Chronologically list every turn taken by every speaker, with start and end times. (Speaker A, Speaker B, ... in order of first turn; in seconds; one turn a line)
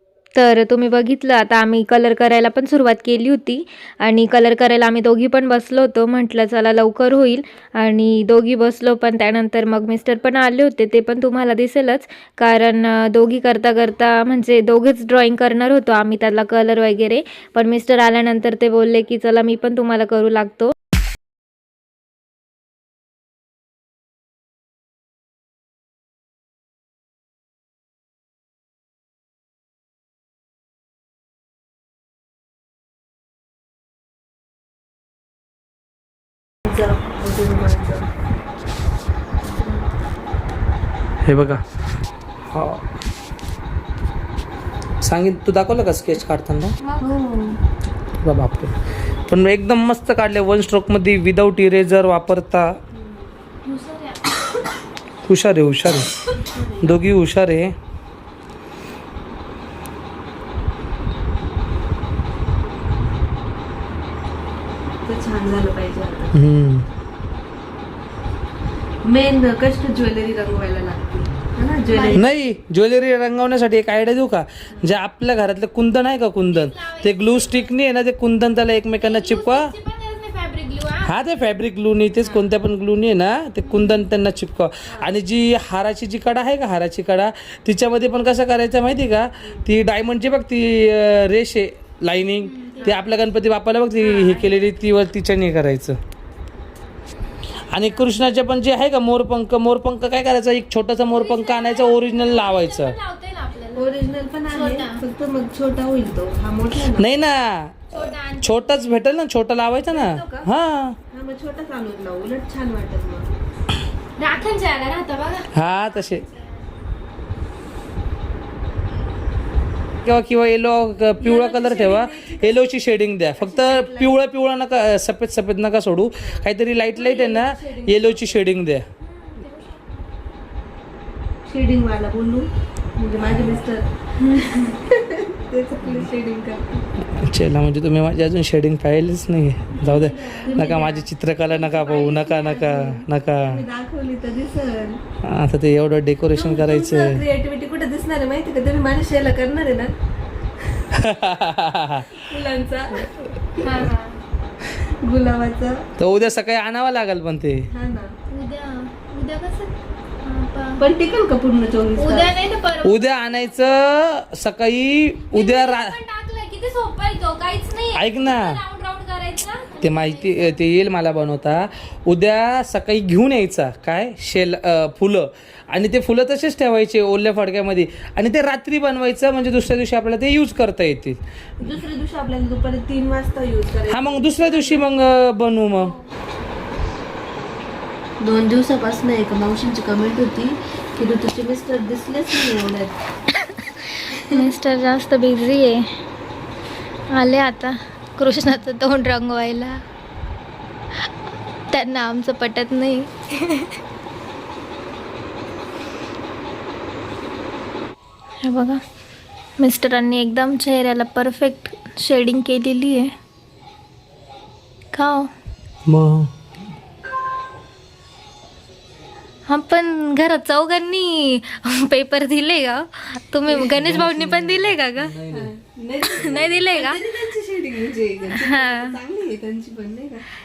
Speaker A: 0.3-20.7
Speaker B: 36.6-38.1
Speaker B: 39.4-39.9
Speaker C: 41.2-41.6
Speaker C: 42.5-42.8
Speaker C: 45.0-46.8
Speaker B: 47.0-47.5
Speaker C: 48.2-48.7
Speaker C: 49.3-52.7
Speaker B: 52.9-53.3
Speaker A: 53.6-54.3
Speaker C: 55.2-56.1
Speaker B: 56.3-57.0
Speaker C: 56.8-57.7
Speaker B: 65.0-66.4
Speaker C: 66.3-66.8
Speaker B: 69.0-72.3
Speaker A: 71.9-72.2
Speaker C: 72.1-79.7
Speaker A: 76.5-77.7
Speaker A: 79.0-81.1
Speaker C: 81.0-96.0
Speaker B: 82.2-82.5
Speaker A: 83.6-84.0
Speaker A: 92.4-93.0
Speaker A: 94.0-94.5
Speaker C: 97.7-102.9
Speaker A: 101.1-103.9
Speaker B: 103.8-107.1
Speaker A: 104.5-105.0
Speaker C: 106.9-111.0
Speaker A: 107.9-108.8
Speaker B: 109.9-110.5
Speaker B: 111.1-113.3
Speaker A: 114.2-116.5
Speaker C: 115.5-116.2
Speaker C: 120.0-128.8
Speaker B: 121.2-122.6
Speaker B: 123.4-124.1
Speaker B: 126.2-128.3
Speaker A: 129.2-129.6
Speaker B: 131.4-136.8
Speaker A: 134.2-134.8
Speaker C: 137.0-143.6
Speaker B: 139.8-141.0
Speaker A: 139.9-141.0
Speaker B: 141.6-145.0
Speaker C: 145.2-147.2
Speaker B: 146.3-149.9
Speaker C: 150.9-152.1
Speaker B: 152.2-153.8
Speaker A: 153.6-154.2
Speaker B: 155.0-155.8
Speaker C: 156.0-157.6
Speaker B: 157.7-158.1
Speaker A: 158.3-160.8
Speaker B: 160.8-162.3
Speaker A: 162.0-163.2
Speaker C: 162.8-166.0
Speaker A: 165.3-170.6
Speaker C: 167.9-168.6
Speaker C: 169.8-181.2
Speaker B: 181.6-184.8
Speaker C: 183.9-185.9
Speaker B: 188.2-192.9
Speaker A: 193.3-195.9
Speaker B: 194.1-194.4
Speaker A: 197.1-199.8
Speaker A: 201.7-203.7
Speaker A: 208.4-208.8
Speaker A: 209.6-213.1
Speaker A: 214.9-215.3
Speaker C: 215.9-216.3
Speaker A: 219.5-225.1
Speaker B: 223.5-223.7
Speaker C: 223.7-225.5
Speaker B: 225.3-230.2
Speaker A: 226.1-227.0
Speaker A: 228.3-228.9